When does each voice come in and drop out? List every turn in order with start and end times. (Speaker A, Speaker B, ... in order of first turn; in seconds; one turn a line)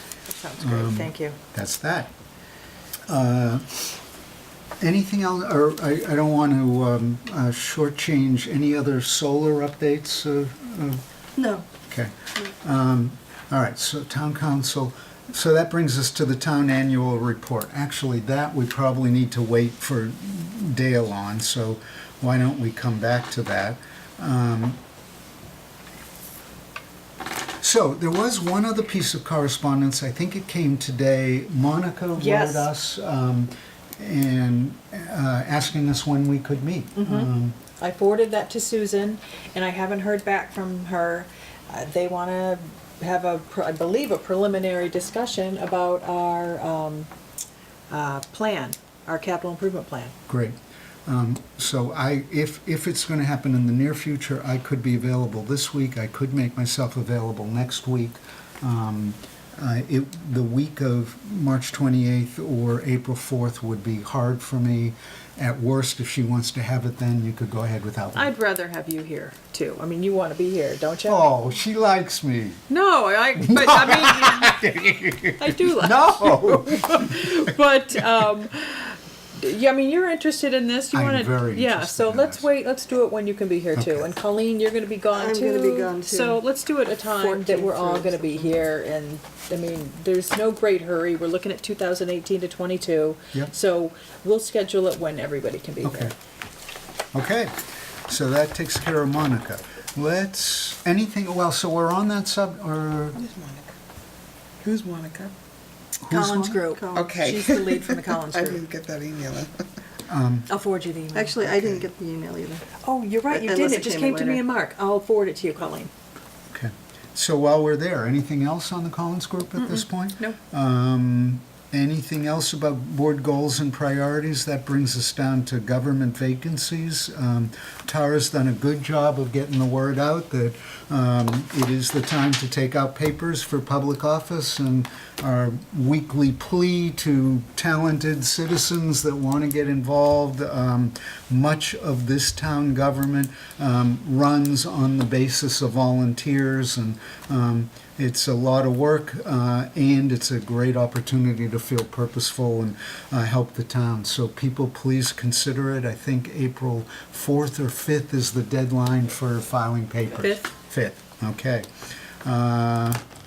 Speaker A: 0.3-1.4
Speaker B: 0.6-2.1
Speaker B: 3.1-4.0
Speaker B: 4.8-11.0
Speaker C: 11.4-11.7
Speaker B: 11.8-24.8
Speaker B: 27.6-37.6
Speaker A: 32.2-32.7
Speaker A: 37.0-47.1
Speaker A: 47.9-50.1
Speaker B: 50.3-68.3
Speaker A: 68.2-71.3
Speaker B: 71.1-72.6
Speaker A: 72.7-74.6
Speaker B: 73.4-77.4
Speaker A: 75.4-96.1
Speaker B: 80.9-82.5
Speaker B: 83.8-84.1
Speaker C: 85.1-86.4
Speaker C: 87.2-88.5
Speaker B: 95.8-96.1
Speaker B: 97.1-97.5
Speaker B: 98.1-103.2
Speaker D: 103.2-103.7
Speaker D: 104.6-105.3
Speaker B: 106.0-106.6
Speaker A: 106.1-108.6
Speaker C: 106.2-107.2
Speaker D: 107.0-109.7
Speaker B: 110.1-110.5
Speaker A: 110.5-111.4
Speaker C: 111.1-112.7
Speaker A: 112.8-115.9
Speaker C: 113.3-114.5
Speaker B: 116.5-161.7
Speaker A: 119.6-120.4
Speaker B: 162.2-163.0